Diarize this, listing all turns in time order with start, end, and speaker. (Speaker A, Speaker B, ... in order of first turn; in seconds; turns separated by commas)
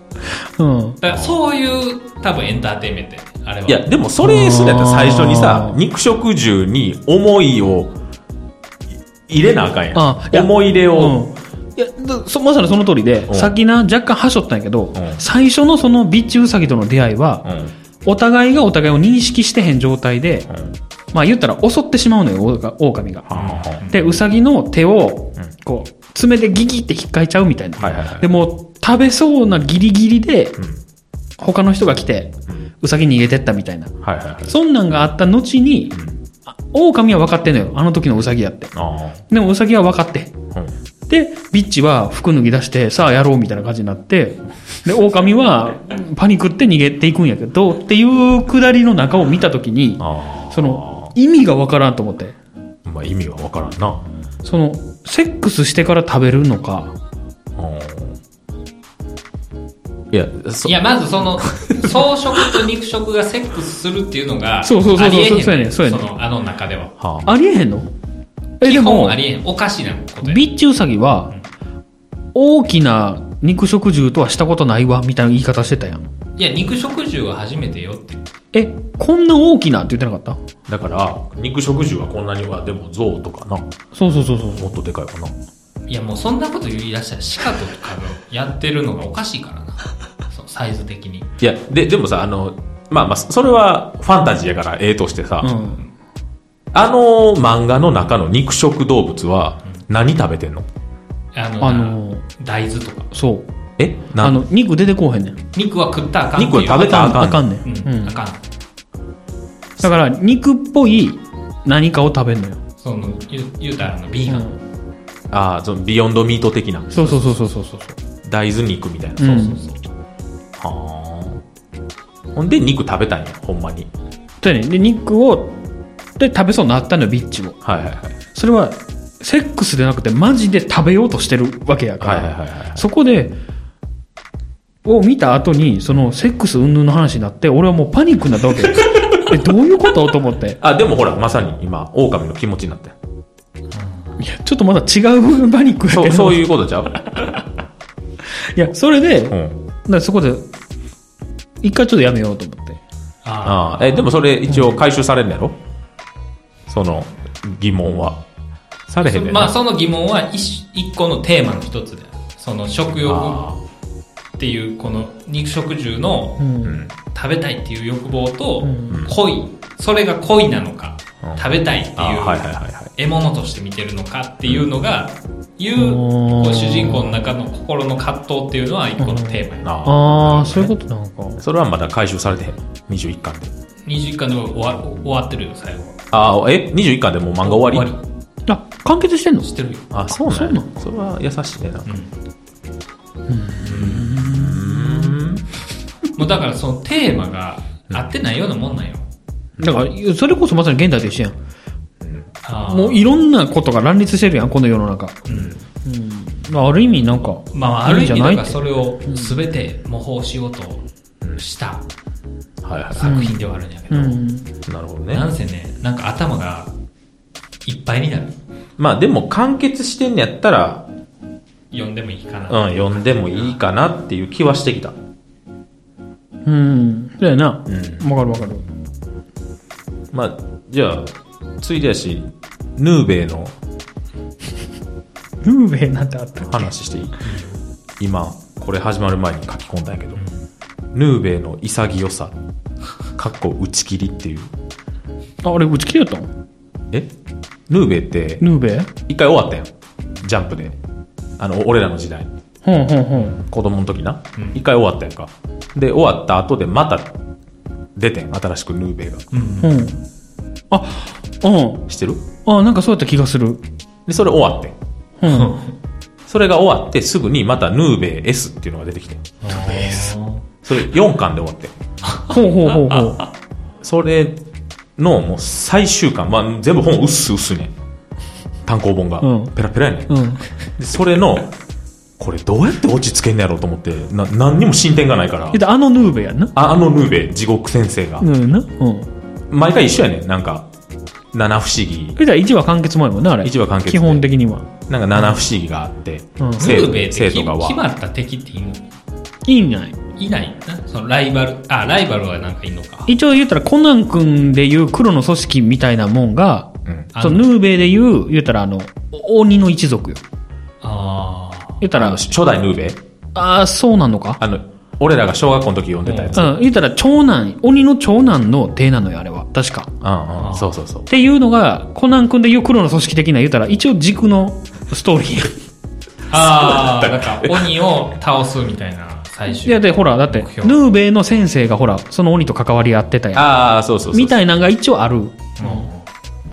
Speaker A: 0.6-1.0, Speaker B: 1.0-3.8, Speaker C: 1.1-1.4, Speaker C: 3.7-8.0, Speaker A: 4.2-5.8, Speaker C: 9.3-11.2, Speaker A: 9.9-17.4, Speaker C: 13.3-13.5, Speaker C: 14.9-15.2, Speaker C: 17.4-17.7, Speaker A: 18.0-20.5, Speaker A: 21.1-30.6, Speaker C: 23.3-23.9, Speaker B: 23.3-24.0, Speaker C: 27.8-28.3, Speaker A: 31.4-33.9, Speaker C: 34.0-34.5, Speaker A: 34.4-36.0, Speaker A: 36.5-38.7, Speaker C: 38.7-39.2, Speaker A: 39.3-40.3, Speaker A: 41.1-52.4, Speaker C: 50.0-51.1, Speaker C: 52.8-54.0, Speaker A: 54.4-56.9, Speaker C: 57.5-58.2, Speaker C: 60.1-60.8, Speaker B: 60.6-66.9, Speaker C: 61.4-62.6, Speaker A: 64.6-66.1, Speaker C: 67.0-67.3, Speaker A: 67.2-67.9, Speaker A: 68.6-69.2, Speaker B: 68.6-70.4, Speaker A: 70.2-71.3, Speaker A: 72.3-76.1, Speaker B: 76.4-78.2, Speaker A: 78.5-80.4, Speaker C: 80.7-83.7, Speaker A: 83.9-84.7, Speaker C: 84.6-85.3, Speaker B: 85.9-91.3, Speaker C: 91.4-95.5, Speaker A: 95.4-95.8, Speaker C: 96.7-100.7, Speaker B: 101.3-103.1, Speaker A: 101.6-102.2, Speaker A: 103.1-103.5, Speaker C: 103.8-104.4, Speaker A: 104.2-105.4, Speaker B: 105.5-108.4, Speaker C: 106.3-107.4, Speaker A: 106.8-108.2, Speaker A: 109.8-112.6, Speaker B: 112.8-114.5, Speaker A: 114.3-114.6, Speaker C: 115.3-117.5, Speaker A: 116.9-118.0, Speaker C: 118.2-119.5, Speaker A: 119.2-119.6, Speaker B: 119.3-119.8, Speaker C: 120.6-121.4, Speaker C: 122.3-123.9, Speaker A: 124.4-125.5, Speaker A: 126.2-127.6, Speaker C: 127.6-128.2, Speaker A: 128.3-133.3, Speaker C: 132.0-132.8, Speaker A: 134.8-140.6, Speaker C: 140.6-142.9, Speaker B: 143.7-144.2, Speaker A: 144.2-147.4, Speaker C: 145.9-147.0, Speaker A: 148.5-150.5, Speaker C: 149.3-149.6, Speaker A: 151.6-152.8, Speaker B: 153.2-154.1, Speaker C: 153.4-155.6, Speaker C: 156.7-158.2, Speaker C: 158.9-159.5, Speaker B: 159.0-163.5, Speaker C: 163.0-163.6, Speaker B: 164.4-166.4, Speaker A: 166.4-166.8, Speaker C: 166.6-166.9, Speaker B: 167.0-179.7, Speaker A: 168.6-169.0, Speaker C: 168.9-169.2, Speaker C: 171.2-172.9, Speaker A: 175.7-177.2, Speaker A: 179.0-181.4, Speaker C: 179.6-180.7, Speaker C: 181.4-183.5, Speaker B: 183.8-186.0, Speaker C: 186.1-187.9, Speaker B: 187.4-188.0, Speaker A: 188.5-189.5, Speaker B: 189.4-189.8, Speaker C: 189.9-192.0, Speaker A: 190.1-190.7, Speaker B: 191.8-192.1, Speaker A: 193.3-195.2, Speaker B: 193.7-194.1, Speaker C: 193.7-195.5, Speaker B: 196.2-199.1, Speaker A: 199.6-201.4, Speaker C: 202.0-202.3, Speaker B: 202.4-203.1, Speaker A: 202.7-205.2, Speaker B: 205.3-205.6, Speaker A: 205.8-209.3, Speaker B: 207.5-211.8, Speaker C: 212.6-213.1, Speaker B: 212.9-214.2, Speaker A: 213.0-214.5, Speaker C: 214.7-215.3, Speaker B: 215.1-216.7, Speaker B: 217.6-218.3, Speaker C: 218.8-220.8, Speaker B: 221.7-223.6, Speaker C: 222.5-225.0, Speaker A: 226.4-228.6, Speaker C: 227.7-228.1, Speaker C: 230.1-233.5, Speaker A: 235.4-236.7, Speaker C: 236.4-237.2, Speaker B: 237.2-237.6, Speaker C: 238.0-240.2, Speaker C: 240.9-242.3, Speaker C: 243.2-244.5, Speaker A: 245.4-246.3, Speaker C: 247.7-248.4, Speaker A: 248.4-248.9, Speaker C: 249.1-250.8, Speaker C: 251.4-252.3, Speaker A: 252.6-253.4, Speaker C: 253.3-257.1, Speaker C: 257.9-259.3, Speaker B: 259.3-259.9, Speaker A: 259.6-260.0, Speaker A: 260.7-261.9, Speaker C: 261.9-262.2, Speaker A: 262.4-263.6, Speaker C: 264.1-264.8, Speaker A: 265.2-265.6, Speaker B: 265.3-265.6, Speaker C: 266.2-270.1, Speaker B: 269.4-270.4, Speaker C: 270.6-271.7, Speaker B: 272.1-273.1, Speaker A: 272.3-273.3, Speaker C: 273.8-274.4, Speaker C: 275.0-277.7, Speaker C: 278.6-280.2, Speaker A: 279.2-279.5, Speaker A: 280.1-280.4, Speaker C: 280.8-281.5, Speaker C: 282.2-285.6, Speaker A: 285.5-286.5, Speaker C: 286.5-288.3, Speaker A: 288.2-289.1, Speaker C: 289.5-290.7, Speaker C: 291.3-292.2, Speaker A: 292.2-294.7, Speaker C: 293.4-294.3, Speaker C: 294.9-297.8, Speaker A: 296.4-296.8, Speaker B: 296.6-298.9, Speaker A: 299.4-299.9, Speaker B: 300.2-303.1, Speaker A: 303.1-310.2, Speaker C: 306.9-307.1, Speaker B: 307.1-307.5, Speaker B: 310.8-311.8, Speaker A: 311.8-312.2, Speaker C: 311.9-313.0, Speaker A: 313.3-314.4, Speaker C: 314.4-316.6, Speaker B: 316.0-316.4, Speaker A: 316.3-319.9, Speaker C: 320.0-321.1, Speaker B: 320.4-320.7, Speaker A: 321.1-325.6, Speaker B: 326.3-330.8, Speaker C: 326.3-327.8, Speaker A: 329.6-333.4, Speaker C: 333.3-334.4, Speaker A: 334.1-335.9, Speaker B: 335.6-336.1